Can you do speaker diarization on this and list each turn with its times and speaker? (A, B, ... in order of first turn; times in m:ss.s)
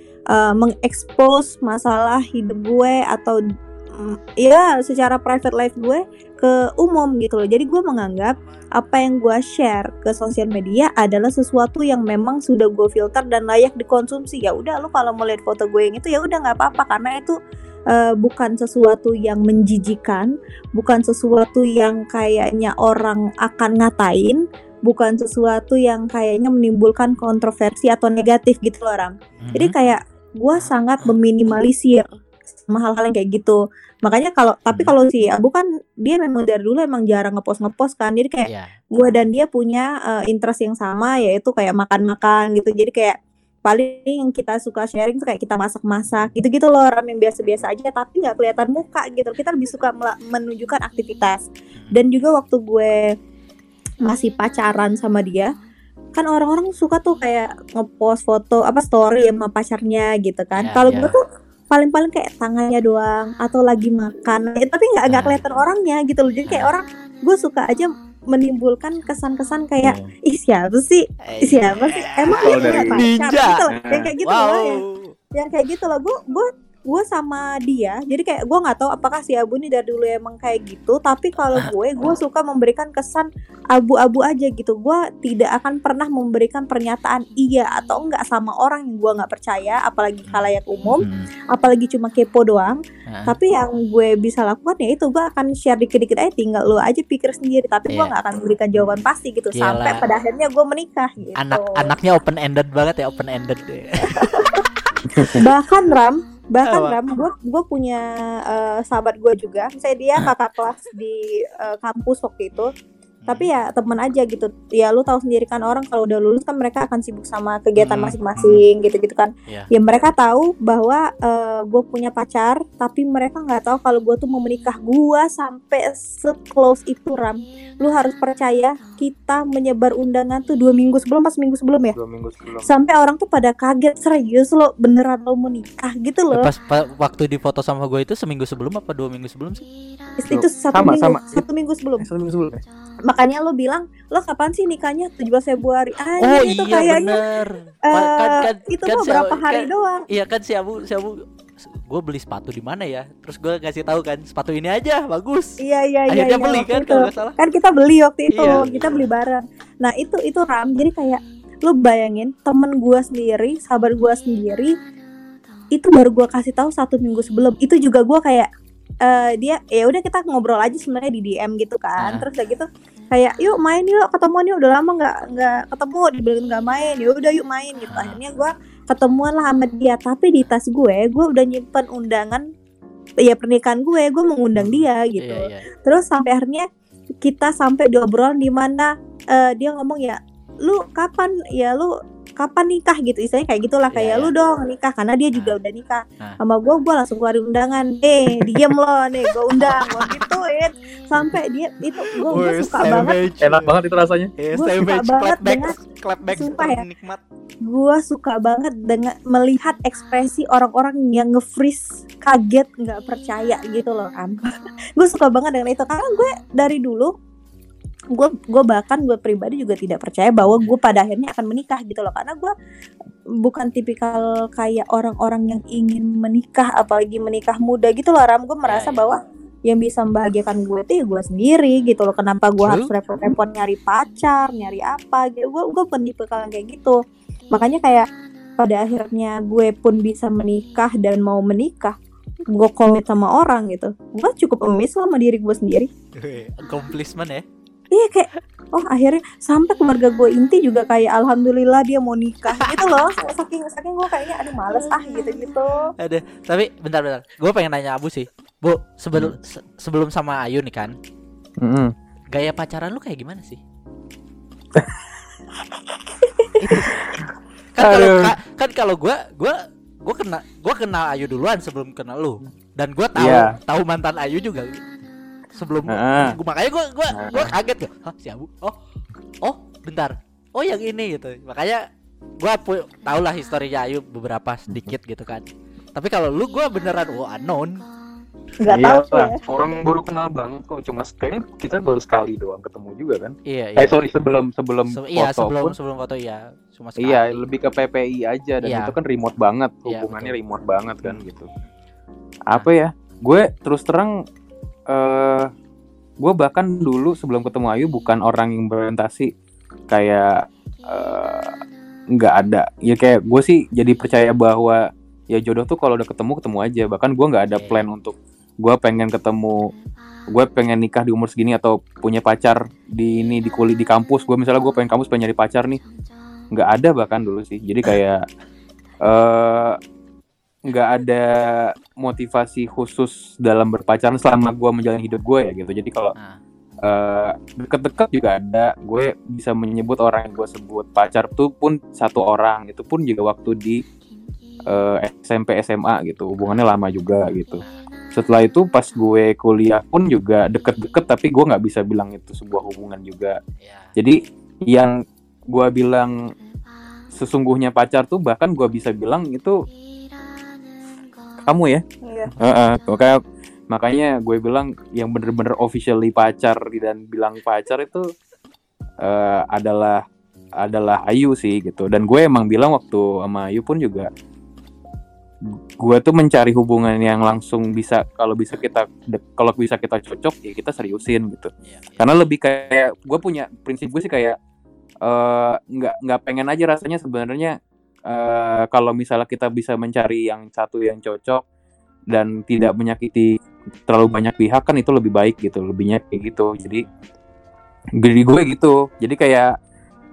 0:00.3-0:03.4 A
0:04.0-0:17.4 A
0:17.9-0:53.1 A
0:29.4-0:29.7 B
0:38.5-0:38.8 B
0:51.8-0:52.0 B
0:54.0-0:55.5 A
0:56.2-1:14.8 A
1:00.6-1:01.2 B
1:05.1-1:05.4 B
1:09.8-1:10.1 B
1:11.2-1:13.6 B
1:12.4-1:13.0 C
1:13.7-1:14.1 C
1:14.2-1:15.2 B
1:15.3-1:41.9 A
1:30.3-1:31.3 B
1:33.1-1:33.4 B
1:39.5-1:40.0 B
1:41.4-1:45.3 B
1:44.2-1:44.6 A
1:45.1-1:45.4 C
1:45.3-1:52.7 A
1:46.7-1:47.0 B
1:53.2-1:53.5 B
1:53.3-2:12.0 A
1:57.8-1:58.6 B
2:11.9-2:12.7 C
2:12.6-2:16.5 A
2:16.3-2:19.6 B
2:20.2-2:22.0 A
2:20.3-2:21.4 C
2:22.0-2:22.6 C
2:23.0-2:27.2 A
2:26.2-2:35.6 B
2:27.9-2:30.0 A
2:35.6-2:44.7 A
2:36.1-2:37.4 B
2:38.3-2:38.7 B
2:38.5-2:38.8 C
2:45.7-2:48.5 A
2:49.0-3:02.4 A
2:52.0-2:52.3 B
2:57.9-2:58.2 B
3:03.2-3:06.7 A
3:04.6-3:05.6 B
3:07.2-3:23.2 A
3:13.9-3:14.3 B
3:19.3-3:20.3 B
3:22.1-3:23.7 B
3:23.4-3:24.3 C
3:24.4-3:27.2 B
3:24.5-3:25.8 A
3:26.4-3:26.8 A
3:27.7-3:37.1 A
3:38.1-3:42.5 A
3:43.4-3:57.0 A
3:48.6-3:49.1 B
3:52.6-3:52.9 B
3:57.5-3:58.0 A
3:58.6-4:02.0 A
4:02.5-4:05.9 A
4:06.2-4:07.4 B
4:07.9-4:15.8 A
4:12.6-4:12.9 B
4:16.0-4:21.0 B
4:21.6-4:21.9 C
4:22.3-4:23.6 B
4:26.6-4:26.9 B
4:26.7-4:28.4 C
4:27.8-4:34.8 B
4:33.2-4:33.5 C
4:35.6-4:38.8 B
4:35.9-4:36.4 C
4:37.1-4:37.5 C
4:39.4-4:41.8 B
4:42.4-4:47.8 B
4:48.6-4:49.4 A
4:48.7-4:55.7 C
4:53.5-4:54.0 B
4:54.9-4:57.5 B
4:57.0-5:01.5 C
4:58.6-4:58.9 B
4:59.9-5:00.4 B
5:02.5-5:04.1 C
5:04.9-5:05.5 C
5:06.2-5:09.3 C
5:09.9-5:11.6 C
5:12.2-5:19.7 C
5:17.5-5:17.8 B
5:20.3-5:25.8 C
5:26.5-5:28.2 C
5:29.0-5:29.8 C
5:30.7-5:36.1 C
5:36.8-5:43.8 C
5:44.7-5:53.4 C
5:47.6-5:47.9 B
5:53.6-5:54.0 B
5:54.0-5:54.9 C
5:55.5-5:56.2 C
5:57.1-5:59.6 C
6:01.5-6:01.8 C
6:02.0-6:02.3 A
6:02.4-6:03.2 C
6:03.7-6:08.1 C
6:09.0-6:10.0 C
6:10.6-6:14.1 C
6:15.8-6:24.4 C
6:21.6-6:22.0 B
6:25.0-6:27.6 C
6:28.1-6:31.4 C
6:32.1-6:33.3 C
6:33.9-6:36.8 C
6:38.0-6:39.5 C